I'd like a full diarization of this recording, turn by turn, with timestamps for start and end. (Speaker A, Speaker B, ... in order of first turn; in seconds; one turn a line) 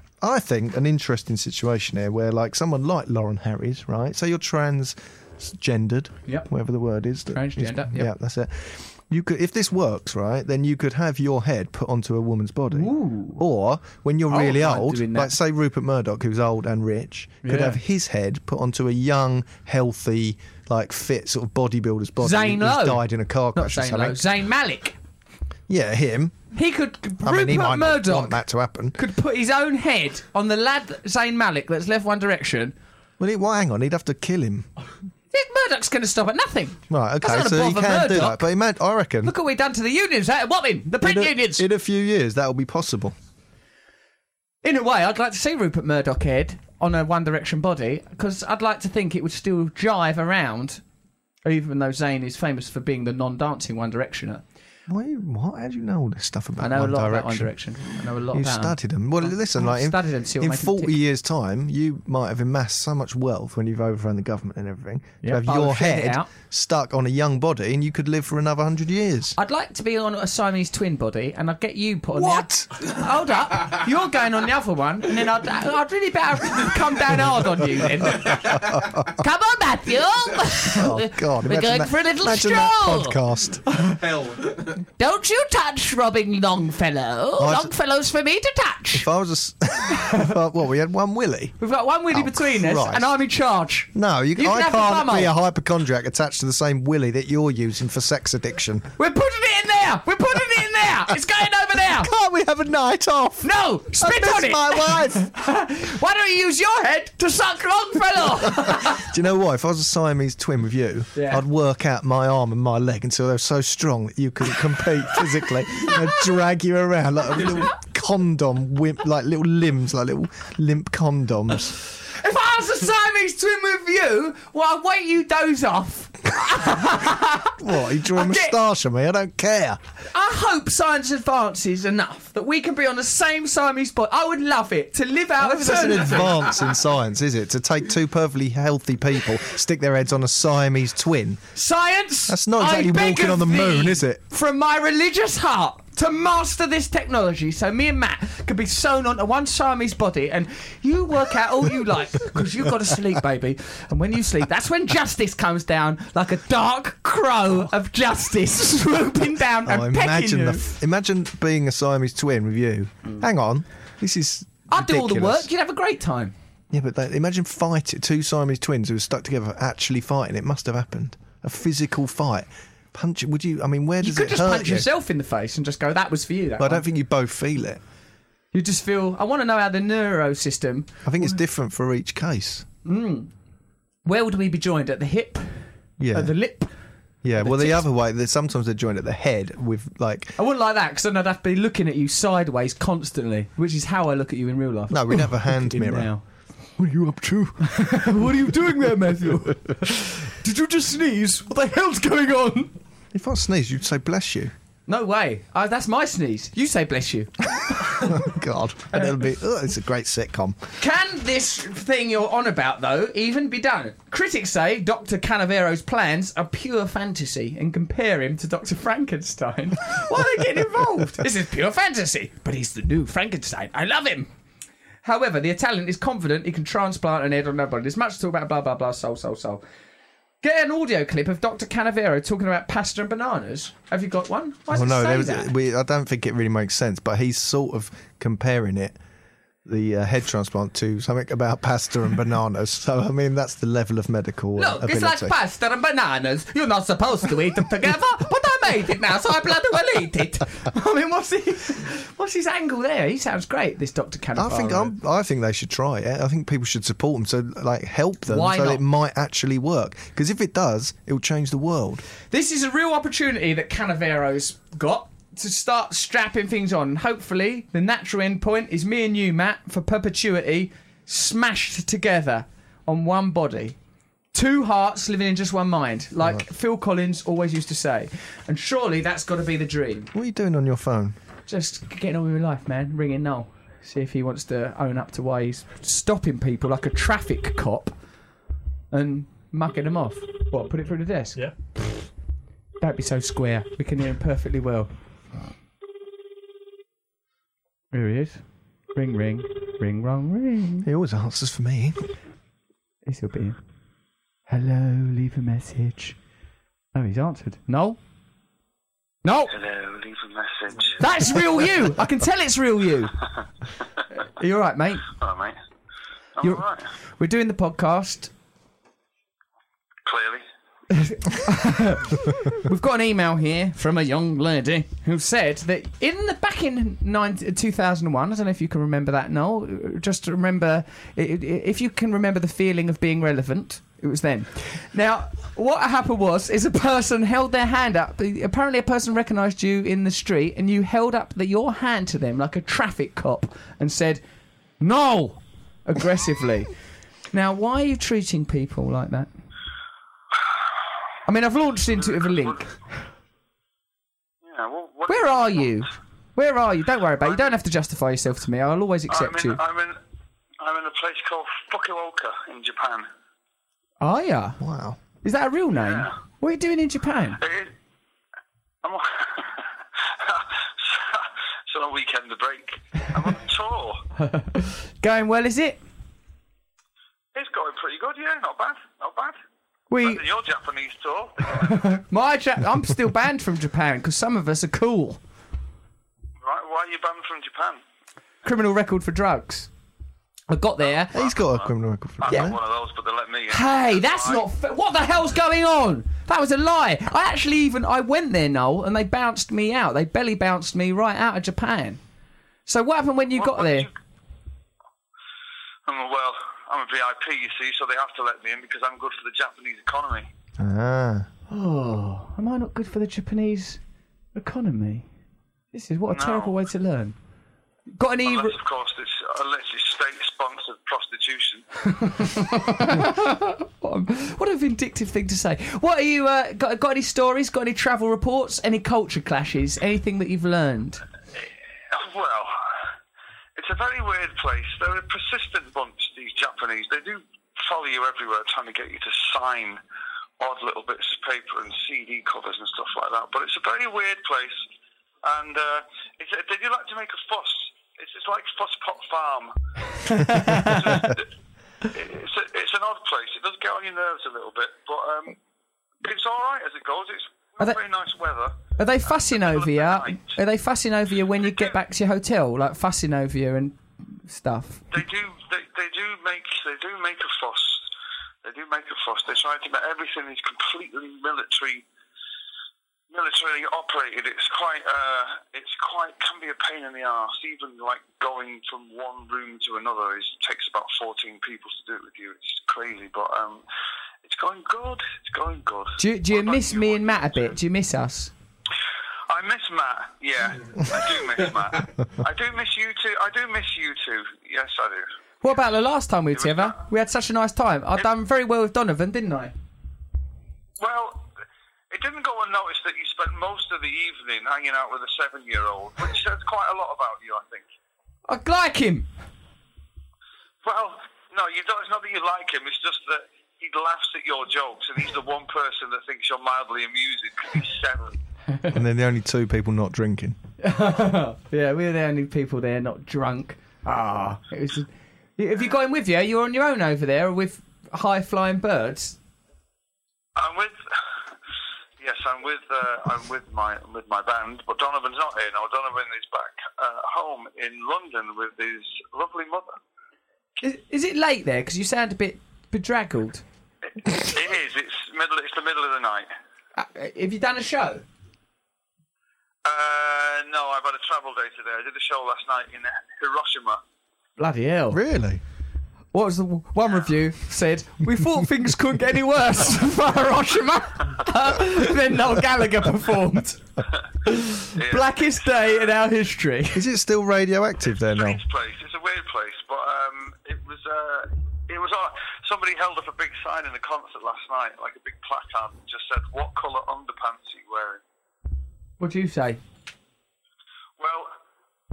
Speaker A: 0.2-24.2
Speaker B: 7.3-8.1
Speaker B: 12.7-13.4
Speaker B: 14.3-15.3
Speaker B: 17.4-17.8
Speaker B: 22.2-23.0
Speaker B: 23.5-24.9
Speaker A: 25.7-26.4
Speaker B: 26.5-28.4
Speaker A: 27.2-29.0
Speaker B: 28.9-32.7
Speaker A: 33.2-34.7
Speaker B: 35.3-38.4
Speaker A: 36.9-39.3
Speaker B: 39.2-41.6
Speaker A: 41.0-43.1
Speaker B: 44.6-50.8
Speaker B: 51.4-54.4
Speaker A: 54.9-57.5
Speaker B: 56.6-61.0
Speaker A: 58.3-69.3
Speaker B: 65.2-66.3
Speaker B: 69.4-83.2
Speaker A: 72.1-72.8
Speaker A: 78.0-79.2
Speaker A: 80.6-83.6
Speaker B: 84.8-89.1
Speaker A: 87.4-87.7
Speaker A: 88.9-91.6
Speaker B: 91.6-95.3
Speaker A: 92.1-93.1
Speaker A: 93.9-98.9
Speaker B: 99.0-102.1
Speaker A: 101.9-105.3
Speaker B: 103.4-109.0
Speaker A: 108.4-121.8
Speaker B: 111.1-111.4
Speaker B: 121.9-128.5
Speaker A: 127.6-129.8
Speaker B: 130.1-136.6
Speaker A: 135.4-141.4
Speaker B: 141.5-160.7
Speaker A: 142.3-144.2
Speaker A: 159.7-165.5
Speaker B: 164.7-166.3
Speaker A: 166.7-174.9
Speaker B: 174.0-176.8
Speaker A: 176.6-177.8
Speaker B: 178.5-181.4
Speaker A: 181.0-182.7
Speaker B: 182.8-183.3
Speaker B: 184.1-186.7
Speaker A: 186.0-186.3
Speaker A: 187.2-190.3
Speaker B: 187.4-187.8
Speaker B: 190.4-196.2
Speaker A: 194.9-196.1
Speaker A: 196.8-198.0
Speaker B: 197.6-202.7
Speaker A: 203.1-204.5
Speaker B: 204.9-208.2
Speaker A: 207.8-210.6
Speaker B: 210.8-224.3
Speaker B: 225.0-229.6
Speaker B: 230.4-235.5
Speaker A: 234.7-239.0
Speaker A: 239.7-245.3
Speaker B: 244.6-254.9
Speaker A: 254.3-262.0
Speaker B: 258.3-258.8
Speaker B: 262.3-273.8
Speaker B: 274.3-280.1
Speaker A: 280.1-281.2
Speaker B: 281.5-287.9
Speaker B: 288.9-291.8
Speaker B: 292.8-294.9
Speaker B: 297.9-298.4
Speaker B: 298.9-300.9
Speaker A: 300.8-302.0
Speaker B: 303.1-303.6
Speaker B: 304.5-306.1
Speaker B: 306.9-308.0
Speaker B: 309.2-309.5
Speaker C: 309.5-311.0
Speaker B: 311.0-313.2
Speaker B: 314.2-315.1
Speaker C: 315.1-315.6
Speaker C: 316.4-316.9
Speaker B: 316.4-316.6
Speaker B: 317.2-318.3
Speaker C: 320.0-320.4
Speaker B: 320.9-344.2
Speaker B: 344.8-346.7
Speaker B: 347.3-349.3
Speaker B: 351.2-352.7
Speaker C: 352.1-352.6
Speaker C: 354.4-355.8
Speaker B: 355.1-359.6
Speaker C: 357.2-357.5
Speaker C: 359.1-360.0
Speaker C: 360.6-363.1
Speaker B: 364.0-364.6
Speaker A: 364.6-365.0
Speaker B: 365.2-367.4
Speaker C: 365.7-366.1
Speaker C: 367.4-367.7
Speaker C: 368.8-374.0
Speaker B: 374.2-375.8
Speaker C: 377.3-379.4
Speaker B: 379.9-380.2
Speaker C: 380.0-382.0
Speaker B: 381.5-385.2
Speaker C: 386.4-387.8
Speaker B: 388.4-389.7
Speaker B: 390.5-391.1
Speaker C: 391.0-394.4
Speaker A: 391.1-392.6
Speaker B: 392.3-392.5
Speaker B: 393.5-402.0
Speaker B: 402.6-403.9
Speaker C: 403.3-403.9
Speaker C: 405.9-410.3
Speaker A: 410.6-411.3
Speaker B: 411.5-413.8
Speaker B: 414.3-415.1
Speaker B: 415.7-417.1
Speaker C: 416.1-416.5
Speaker B: 418.0-418.6
Speaker C: 418.2-421.6
Speaker B: 421.9-431.0
Speaker C: 431.9-432.7
Speaker C: 433.6-439.8
Speaker C: 440.4-444.6
Speaker C: 445.2-449.5
Speaker B: 450.0-451.1
Speaker C: 450.2-451.3
Speaker C: 451.9-455.4
Speaker C: 456.0-460.4
Speaker B: 458.8-464.8
Speaker C: 461.5-461.7
Speaker C: 464.9-467.8
Speaker C: 468.4-471.8
Speaker C: 473.1-483.6
Speaker C: 484.2-487.6
Speaker B: 486.0-488.3
Speaker C: 489.3-495.1
Speaker B: 495.4-499.5
Speaker C: 496.3-496.8
Speaker C: 500.8-501.3
Speaker C: 501.9-507.6
Speaker B: 508.3-509.1
Speaker C: 510.6-518.1
Speaker A: 518.7-520.4
Speaker B: 520.6-529.1
Speaker C: 530.4-530.8
Speaker C: 532.0-539.8
Speaker B: 540.6-543.4
Speaker C: 543.9-546.3
Speaker B: 546.8-548.0
Speaker C: 549.6-553.8
Speaker B: 554.4-555.0
Speaker A: 554.9-555.4
Speaker B: 556.1-563.6
Speaker B: 564.2-566.8
Speaker C: 564.7-565.9
Speaker A: 566.7-568.4
Speaker C: 567.9-578.0
Speaker B: 579.0-579.6
Speaker C: 581.0-581.3